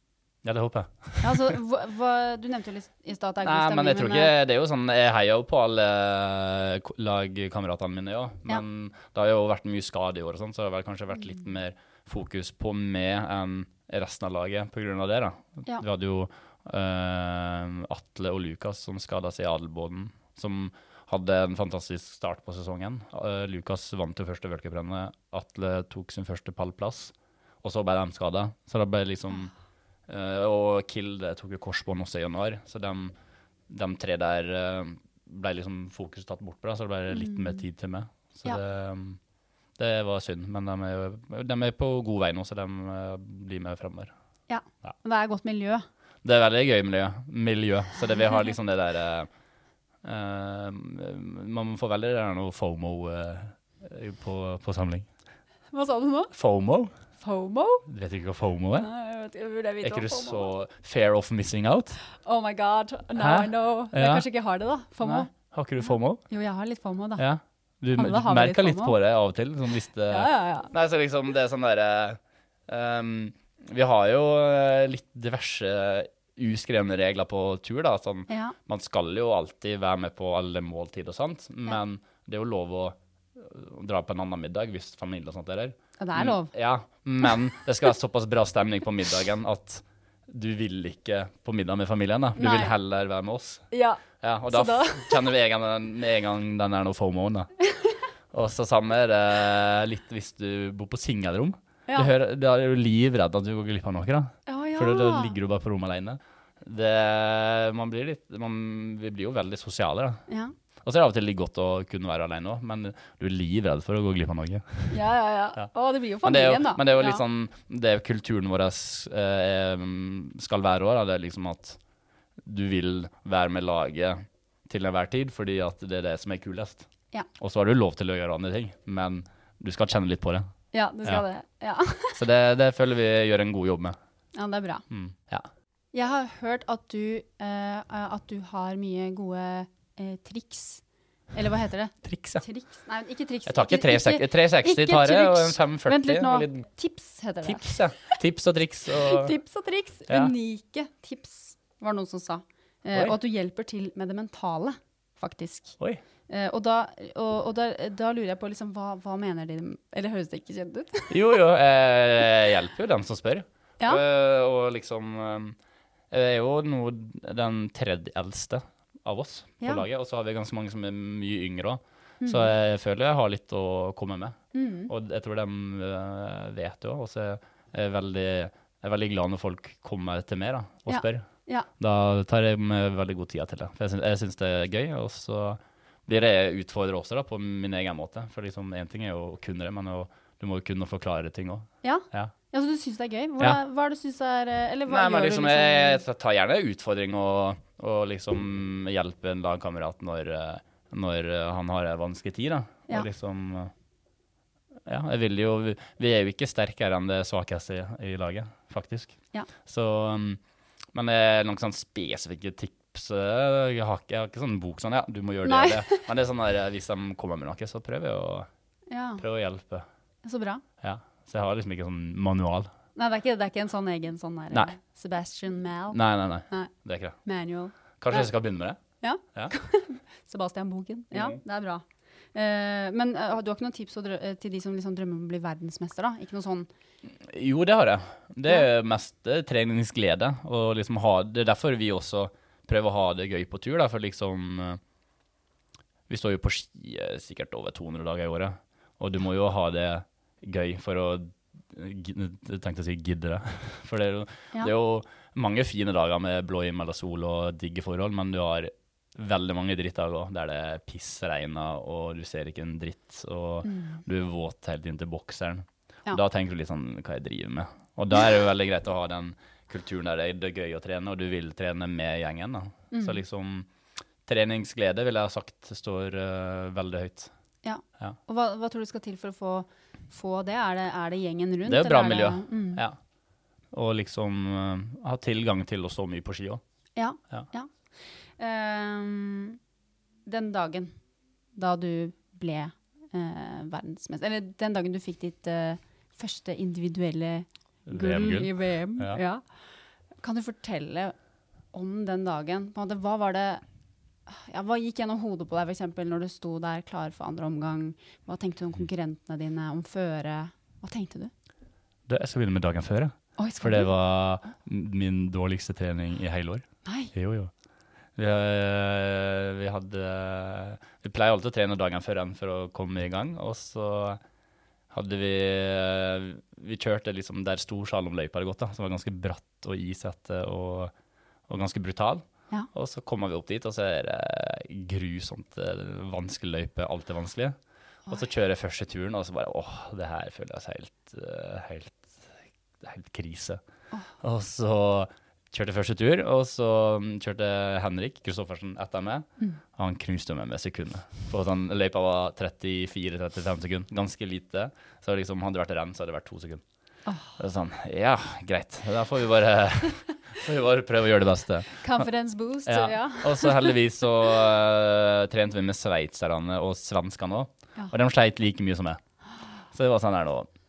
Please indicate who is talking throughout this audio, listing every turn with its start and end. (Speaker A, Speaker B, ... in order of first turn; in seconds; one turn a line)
Speaker A: 0.4-1.6
Speaker B: 1.2-4.3
Speaker A: 3.4-29.5
Speaker A: 30.1-33.1
Speaker A: 33.7-39.2
Speaker B: 37.1-37.6
Speaker A: 39.8-44.1
Speaker B: 44.5-45.8
Speaker A: 46.2-49.3
Speaker A: 50.0-55.1
Speaker B: 55.7-56.3
Speaker A: 56.3-56.9
Speaker B: 57.2-57.9
Speaker A: 57.9-58.9
Speaker B: 58.8-60.5
Speaker A: 59.8-62.0
Speaker B: 62.1-65.3
Speaker A: 63.1-64.2
Speaker A: 65.0-66.2
Speaker B: 66.3-67.2
Speaker A: 67.2-93.6
Speaker B: 68.0-68.9
Speaker B: 70.1-70.7
Speaker B: 78.3-78.5
Speaker B: 86.0-86.5
Speaker B: 92.3-92.7
Speaker B: 93.7-95.3
Speaker A: 94.2-97.5
Speaker A: 98.3-110.2
Speaker B: 104.5-105.3
Speaker A: 110.8-115.0
Speaker B: 114.9-117.2
Speaker A: 116.2-121.8
Speaker A: 122.4-130.4
Speaker B: 130.7-132.2
Speaker A: 132.2-133.9
Speaker B: 134.3-134.8
Speaker A: 134.9-135.5
Speaker B: 135.9-140.8
Speaker B: 141.3-148.2
Speaker A: 142.0-142.4
Speaker A: 143.4-146.7
Speaker A: 147.4-149.3
Speaker B: 148.9-155.8
Speaker A: 150.1-150.3
Speaker B: 156.3-161.1
Speaker A: 161.1-165.6
Speaker A: 166.1-174.4
Speaker B: 169.6-169.8
Speaker B: 172.2-172.5
Speaker B: 174.5-174.9
Speaker A: 174.9-181.3
Speaker B: 180.9-181.7
Speaker A: 181.8-192.3
Speaker B: 191.8-196.0
Speaker A: 194.9-203.7
Speaker A: 204.8-210.4
Speaker A: 210.9-218.5
Speaker B: 215.4-216.1
Speaker B: 218.9-219.2
Speaker A: 219.2-219.8
Speaker B: 220.2-220.6
Speaker A: 220.8-222.7
Speaker B: 222.9-226.7
Speaker A: 225.9-227.2
Speaker B: 227.2-228.3
Speaker A: 228.0-228.8
Speaker B: 229.0-236.7
Speaker A: 231.1-231.4
Speaker A: 237.1-244.8
Speaker A: 246.1-273.7
Speaker B: 263.6-264.0
Speaker B: 272.9-273.2
Speaker A: 274.2-277.3
Speaker B: 277.6-282.8
Speaker A: 281.6-283.0
Speaker A: 283.7-286.6
Speaker B: 286.9-287.7
Speaker B: 288.4-289.6
Speaker B: 290.2-290.9
Speaker B: 291.6-299.4
Speaker A: 297.9-299.2
Speaker B: 300.2-301.1
Speaker B: 301.7-303.6
Speaker B: 304.3-311.3
Speaker A: 312.1-317.5
Speaker B: 313.4-313.9
Speaker B: 316.8-317.1
Speaker A: 318.1-324.2
Speaker A: 324.9-330.9
Speaker A: 331.5-337.5
Speaker A: 338.1-343.6
Speaker A: 344.2-356.6
Speaker B: 357.1-357.3
Speaker A: 357.4-362.1
Speaker B: 361.8-363.7
Speaker A: 362.7-369.0
Speaker A: 369.7-370.5